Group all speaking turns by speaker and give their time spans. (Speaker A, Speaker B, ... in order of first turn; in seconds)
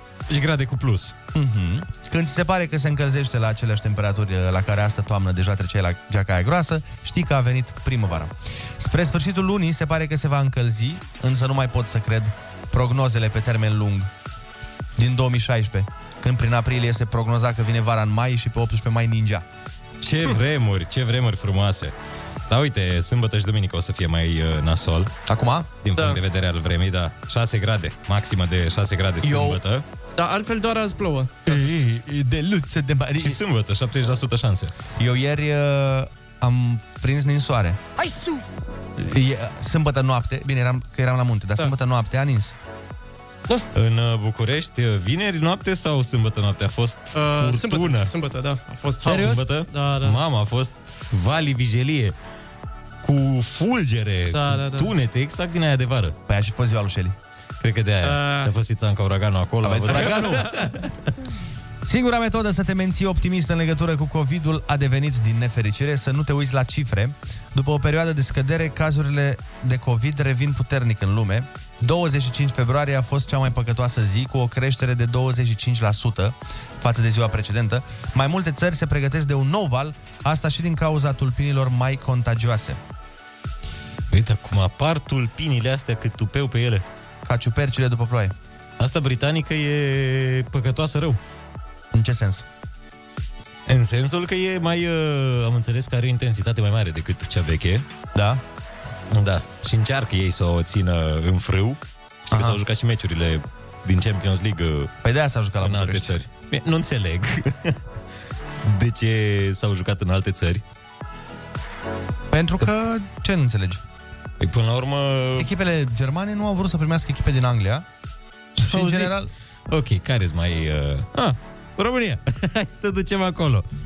Speaker A: 0.3-1.1, 20.0-21.9, 22.5-25.1, 25.8-29.8, 33.2-34.7, 43.7-48.1, 49.0-52.1, 53.0-56.1, 57.6-60.5, 84.1-86.8, 88.8-91.2, 93.7-97.9, 99.1-104.9, 105.6-107.8, 108.6-110.6, 114.4-115.5, 118.6-123.7
Speaker B: 1.3-14.1, 14.9-19.4, 25.3-25.7, 29.2-29.6, 31.4-33.4, 35.0-37.8, 39.0-42.5, 49.0-49.4, 56.3-57.1, 59.6-60.5, 61.9-82.8, 87.2-88.3, 91.9-92.4, 98.1-98.4, 102.3-102.6, 105.0-106.1, 112.3-113.8, 115.4-117.9, 118.5-119.3
Speaker C: 25.9-26.2, 30.2-31.6, 47.1-50.2, 54.3-54.9, 58.0-58.5, 60.4-60.7